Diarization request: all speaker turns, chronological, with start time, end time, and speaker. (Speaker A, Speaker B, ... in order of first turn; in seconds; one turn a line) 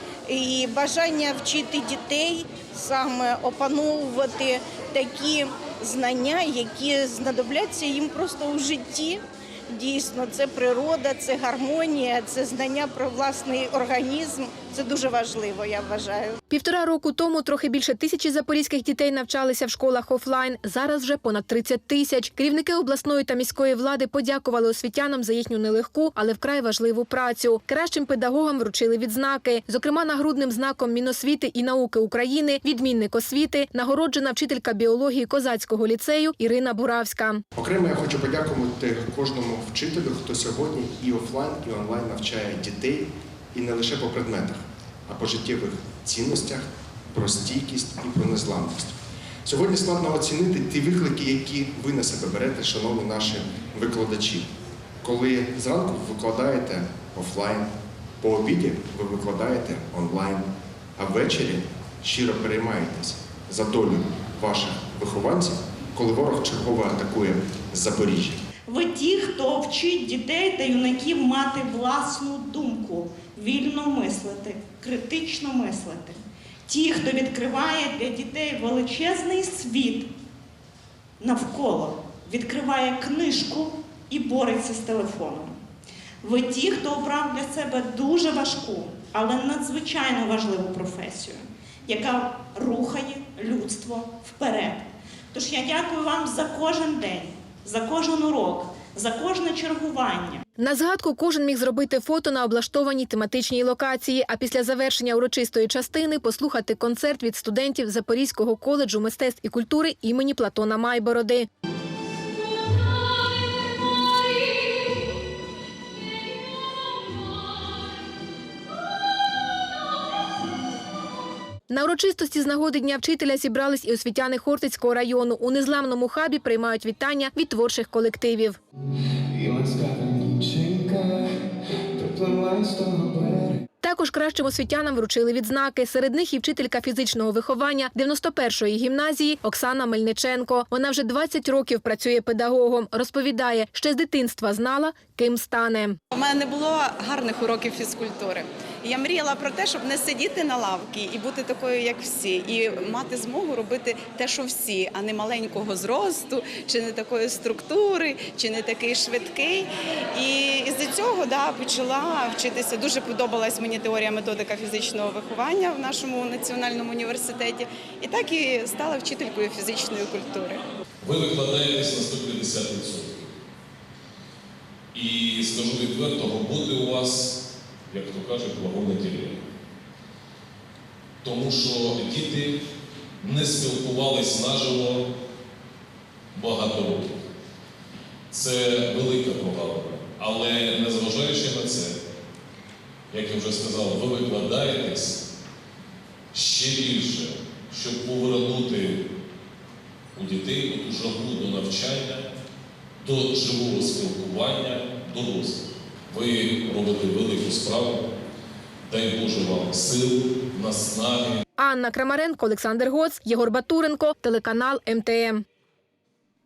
Speaker A: 0.3-16.4
Speaker B: 16.5-37.4
Speaker C: 37.5-54.5
Speaker C: 55.0-57.7
Speaker C: 58.2-60.5
Speaker C: 61.0-68.4
Speaker D: 68.7-80.1
Speaker D: 81.2-85.6
Speaker D: 86.2-100.4
Speaker B: 100.6-111.5
Speaker B: 121.7-128.6
Speaker E: 129.3-131.3
Speaker E: 132.0-133.6
Speaker B: 133.8-146.0
Speaker F: 146.1-170.6
Speaker G: 171.0-173.3
Speaker G: 174.9-177.3
Speaker G: 177.9-179.4
Speaker G: 181.2-182.5
Speaker G: 183.2-185.0
Speaker G: 186.3-187.2
Speaker G: 188.3-192.0
Speaker G: 193.1-195.2
Speaker G: 196.3-199.0
Speaker G: 200.1-202.2
Speaker G: 203.0-208.0
Speaker G: 208.9-211.4
Speaker B: 211.6-215.4